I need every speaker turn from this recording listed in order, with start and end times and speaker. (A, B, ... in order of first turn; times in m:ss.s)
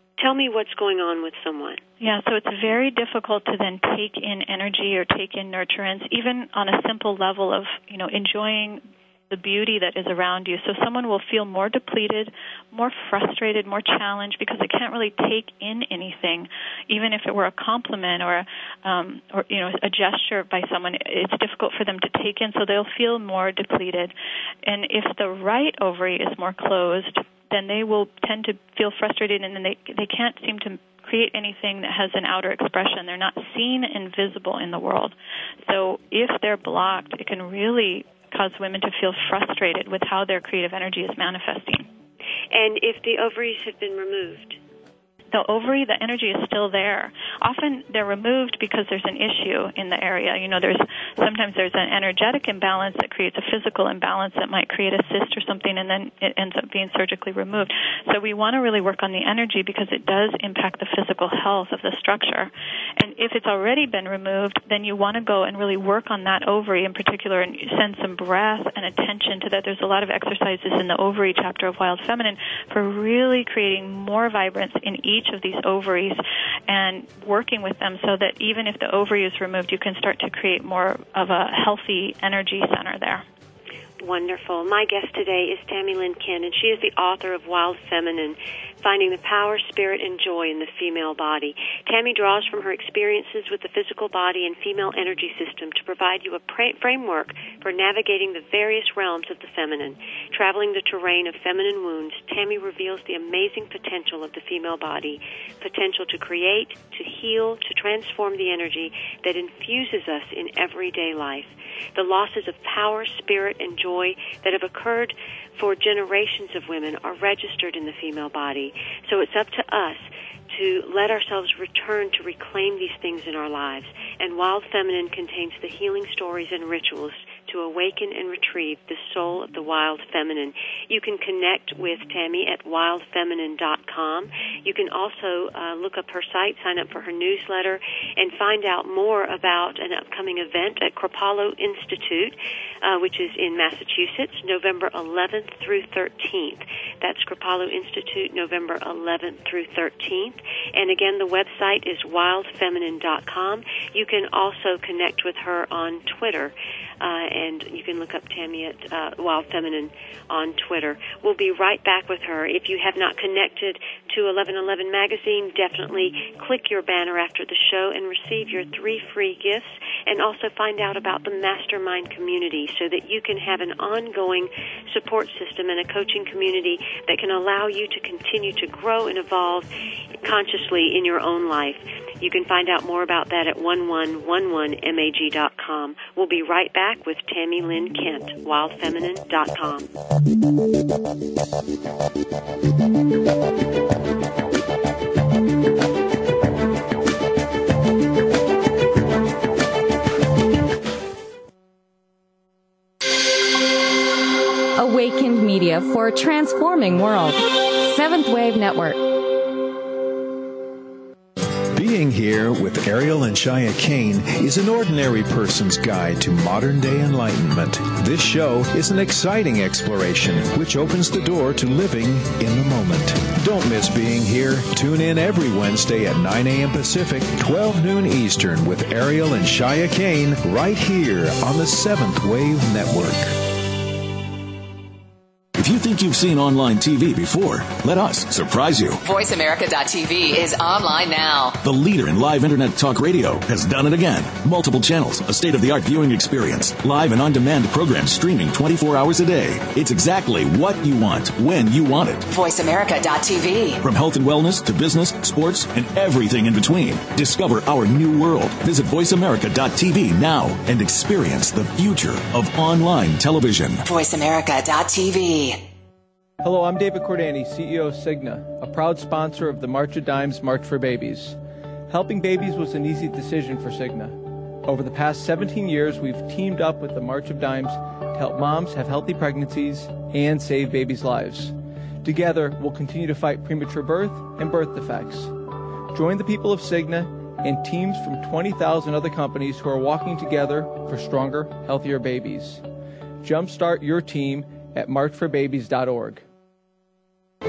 0:00.2-0:01.8 A
0:02.0-0:24.1 B
0:24.6-0:35.1 B
0:35.7-0:41.9 B
0:42.5-0:44.6 A
0:45.3-1:23.2 B
1:24.0-2:59.7 A
3:00.2-3:09.9 A
3:24.8-3:29.0 C
3:31.7-3:53.4 D
3:55.6-3:59.0 E
3:59.0-4:01.6 F
4:01.6-4:12.3 E
4:12.3-4:13.8 F
4:13.8-4:23.8 E
4:23.9-4:25.6 F
4:26.4-4:52.6 G
4:53.2-4:56.2 G